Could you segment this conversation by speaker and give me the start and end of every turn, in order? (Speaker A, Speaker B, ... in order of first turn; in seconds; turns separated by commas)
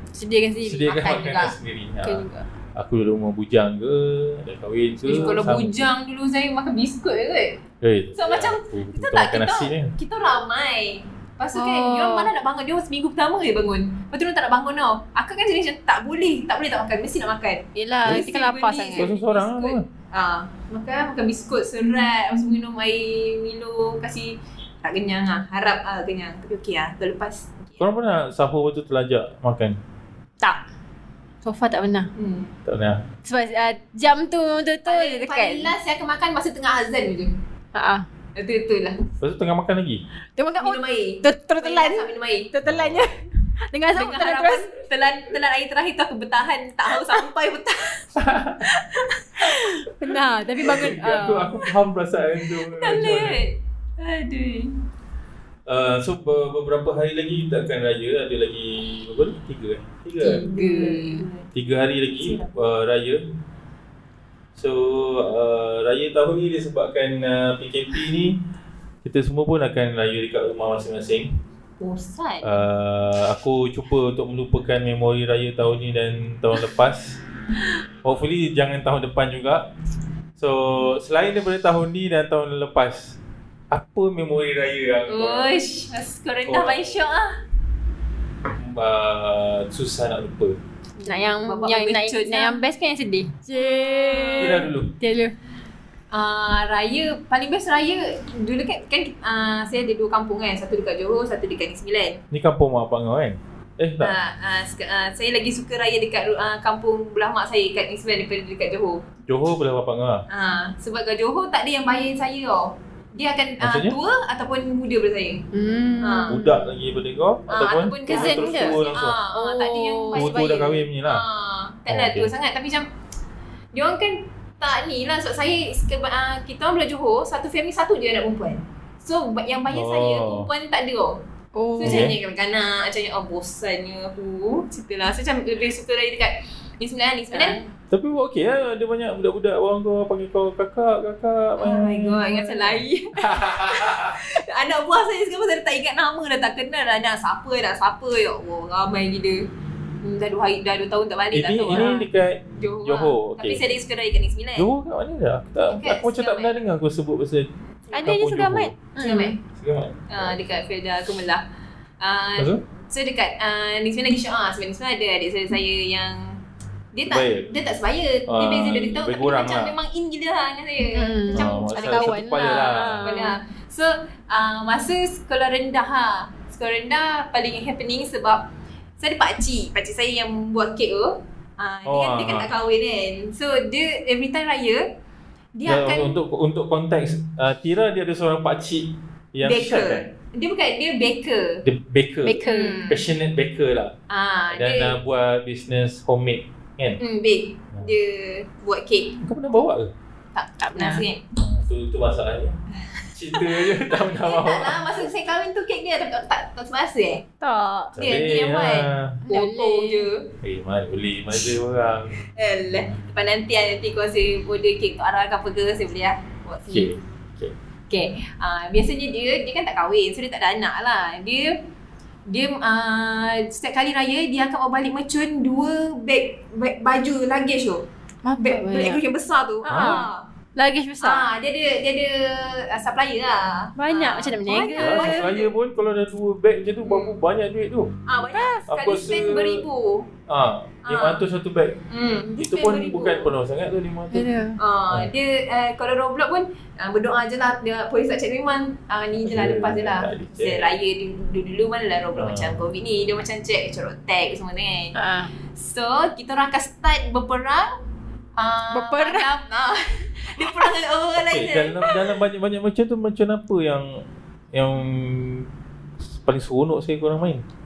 Speaker A: 0.1-0.9, Speaker B: 0.6-2.2, Speaker C: 0.8-1.5, Speaker A: 2.0-2.4, Speaker B: 2.8-5.9, Speaker C: 5.0-7.6, Speaker B: 7.8-9.9, Speaker C: 8.2-27.9, Speaker A: 11.5-12.3, Speaker A: 17.7-19.1, Speaker B: 18.9-19.8, Speaker B: 27.8-29.8, Speaker A: 31.4-32.1, Speaker C: 32.1-32.5, Speaker B: 32.6-33.0, Speaker A: 33.2-35.7, Speaker C: 34.9-37.3, Speaker A: 37.7-38.0, Speaker C: 38.4-39.1, Speaker B: 39.2-40.0, Speaker A: 40.4-43.2, Speaker C: 40.6-42.5, Speaker B: 42.6-43.0, Speaker A: 43.7-44.6, Speaker C: 43.9-48.0, Speaker B: 48.2-48.6, Speaker C: 48.8-49.2, Speaker A: 49.4-51.6, Speaker B: 50.6-53.4, Speaker C: 52.6-54.7, Speaker B: 55.7-60.4, Speaker C: 60.2-61.6, Speaker A: 60.2-61.2, Speaker B: 61.5-63.2, Speaker C: 62.1-62.5, Speaker B: 64.5-68.4, Speaker B: 69.0-71.3, Speaker C: 71.8-72.6, Speaker B: 72.4-77.2, Speaker B: 78.0-79.6, Speaker B: 80.4-83.2, Speaker B: 83.7-85.6, Speaker C: 85.1-87.3, Speaker B: 86.5-87.0, Speaker B: 88.5-90.6, Speaker C: 91.0-92.6, Speaker A: 91.0-95.3, Speaker C: 93.5-94.7, Speaker B: 94.4-94.9, Speaker C: 96.1-102.2, Speaker B: 102.3-104.1, Speaker C: 104.0-109.0, Speaker B: 109.3-110.2, Speaker C: 110.3-115.5, Speaker B: 113.6-114.0, Speaker A: 115.5-116.7, Speaker C: 116.0-116.3, Speaker B: 116.3-119.2, Speaker C: 117.5-122.9, Speaker A: 118.1-118.8, Speaker A: 119.3-120.8, Speaker B: 120.1-121.2, Speaker B: 121.9-122.3, Speaker C: 123.7-131.2, Speaker B: 129.7-130.5, Speaker A: 131.6-132.1, Speaker C: 131.8-137.6, Speaker B: 131.8-132.1, Speaker A: 137.3-137.7, Speaker B: 137.9-144.2, Speaker C: 141.6-149.4, Speaker C: 150.0-152.0, Speaker B: 151.3-153.6, Speaker A: 151.7-152.0, Speaker C: 152.6-154.7, Speaker B: 154.6-157.5, Speaker C: 155.7-156.6, Speaker A: 157.9-159.3, Speaker B: 158.0-158.8, Speaker C: 159.0-159.4, Speaker B: 159.6-160.3, Speaker C: 160.1-161.4, Speaker C: 162.0-166.4, Speaker B: 162.4-162.6, Speaker C: 166.9-184.8, Speaker B: 167.1-167.5, Speaker B: 168.3-169.7, Speaker A: 170.9-173.3, Speaker B: 171.3-173.1, Speaker B: 181.8-182.5, Speaker C: 185.6-186.2, Speaker B: 185.7-190.1, Speaker C: 189.4-191.6, Speaker B: 191.6-193.9, Speaker A: 192.2-192.9, Speaker C: 192.4-193.0, Speaker C: 194.1-195.0, Speaker B: 194.5-197.0, Speaker C: 197.0-199.2, Speaker B: 199.2-199.9, Speaker C: 200.3-201.2, Speaker A: 200.6-201.0, Speaker B: 201.4-202.6, Speaker B: 203.1-204.8, Speaker C: 203.3-207.2, Speaker A: 207.4-207.9, Speaker B: 207.9-209.2, Speaker C: 208.0-210.3, Speaker A: 209.3-210.1, Speaker B: 210.4-212.2, Speaker C: 212.3-216.9, Speaker B: 216.7-217.5, Speaker C: 217.9-221.6, Speaker C: 222.3-227.8, Speaker A: 228.2-229.0, Speaker C: 228.4-230.2, Speaker A: 229.6-231.2, Speaker B: 229.7-230.0, Speaker C: 231.0-235.5, Speaker A: 233.8-235.2, Speaker B: 234.8-237.9, Speaker C: 236.8-237.2, Speaker C: 238.1-240.1, Speaker A: 238.3-238.6, Speaker B: 238.7-239.6, Speaker B: 240.3-241.7, Speaker C: 240.8-241.2, Speaker C: 241.9-243.3, Speaker B: 242.4-244.3, Speaker A: 244.1-244.6, Speaker C: 244.6-254.9, Speaker B: 249.2-250.7, Speaker B: 252.1-252.6, Speaker A: 254.9-255.3, Speaker C: 255.5-257.7, Speaker C: 258.4-262.0, Speaker A: 258.7-259.3, Speaker B: 261.1-264.0, Speaker B: 264.5-265.5, Speaker B: 266.0-267.4